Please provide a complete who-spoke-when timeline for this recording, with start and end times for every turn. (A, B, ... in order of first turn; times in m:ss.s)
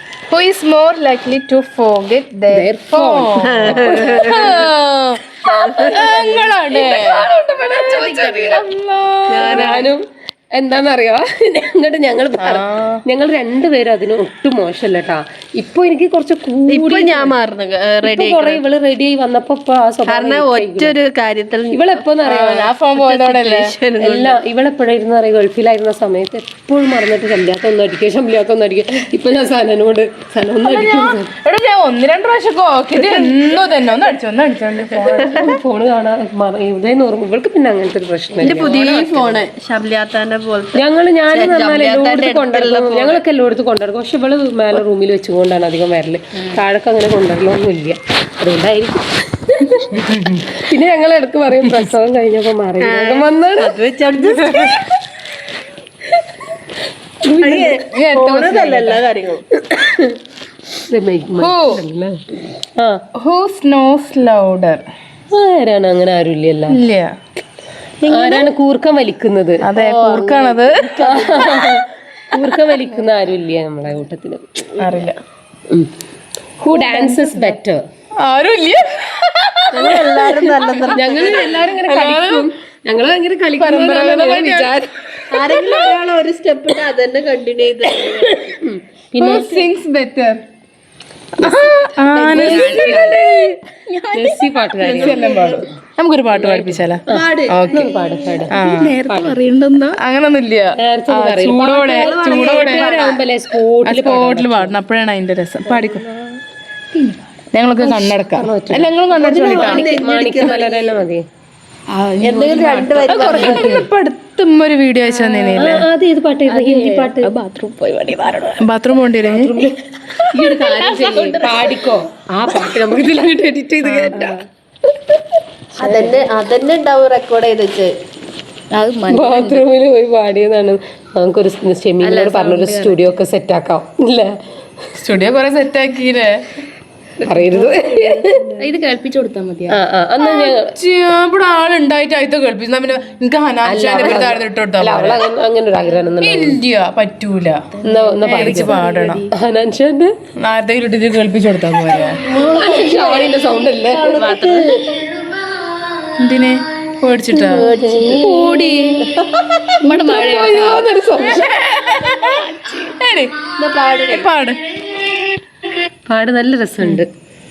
0:00.3-0:05.2 A
0:02.5-0:04.7 B
0:03.4-0:04.7 C
0:05.4-0:08.7 B
0:05.5-0:06.2 C
0:05.8-0:09.8 A
0:09.3-0:09.9 C
0:09.4-0:17.4 B
0:12.4-0:13.0 A
0:16.7-0:18.6 C
0:18.0-0:20.9 B
0:20.1-0:22.1 C
0:21.7-0:22.7 B
0:22.2-0:23.7 A
0:23.0-0:24.4 C
0:24.0-0:31.3 B
0:30.6-0:35.6 A
0:35.1-0:39.4 B
0:35.2-0:35.5 C
0:38.4-0:43.2 C
0:40.8-0:53.8 B
0:49.9-0:50.5 A
0:52.8-0:54.9 C
0:57.4-0:59.4 C
0:57.4-0:59.0 A
0:59.6-1:00.2 B
1:00.8-1:02.2 B
1:01.4-1:01.8 A
1:02.8-1:03.0 B
1:03.2-1:04.9 A
1:05.3-1:06.8 B
1:06.7-1:07.2 A
1:08.0-1:08.5 C
1:08.0-1:09.7 B
1:09.6-1:11.7 A
1:09.8-1:11.8 C
1:11.0-1:14.7 B
1:14.8-1:15.2 A
1:16.6-1:17.8 B
1:16.8-1:17.3 A
1:18.2-1:22.5 A
1:19.7-1:24.9 B
1:19.8-1:21.6 C
1:23.6-1:24.8 A
1:25.3-1:28.6 C
1:28.3-1:29.6 B
1:29.2-1:30.4 A
1:31.4-1:33.2 A
1:31.4-1:31.7 B
1:32.1-1:33.2 D
1:32.3-1:33.2 B
1:33.9-1:34.5 D
1:34.1-1:35.5 B
1:34.8-1:35.7 C
1:35.0-1:37.9 A
1:36.3-1:39.4 B
1:37.1-1:38.4 C
1:38.5-1:39.0 A
1:38.6-1:40.0 D
1:40.0-1:42.9 A
1:40.8-1:44.7 B
1:41.8-1:43.2 C
1:43.8-1:46.0 A
1:46.9-1:47.2 D
1:47.5-1:49.9 A
1:47.9-1:51.2 B
1:49.1-1:51.0 C
1:51.9-1:53.0 D
1:52.2-1:53.9 C
1:53.0-1:53.8 B
1:53.1-1:55.9 A
1:55.6-1:57.4 B
1:56.5-1:58.6 D
1:58.6-1:59.6 A
1:59.3-2:05.2 B
2:00.3-2:01.5 D
2:03.8-2:04.3 A
2:05.8-2:07.9 C
2:08.7-2:09.6 D
2:09.1-2:14.4 B
2:12.0-2:13.0 D
2:15.0-2:16.4 A
2:17.2-2:18.8 B
2:17.5-2:19.8 D
2:19.7-2:20.7 B
2:20.2-2:25.2 A
2:23.6-2:26.6 B
2:26.2-2:29.3 A
2:27.8-2:29.3 D
2:27.8-2:30.1 B
2:30.4-2:32.3 A
2:32.2-2:35.0 C
2:32.4-2:34.2 B
2:34.1-2:36.5 D
2:36.2-2:37.7 A
2:37.3-2:40.8 D
2:37.4-2:38.3 C
2:38.2-2:38.9 A
2:39.0-2:39.8 C
2:39.9-2:41.6 B
2:41.3-2:43.4 A
2:43.6-2:44.3 C
2:44.1-2:44.6 A
2:46.1-2:47.1 B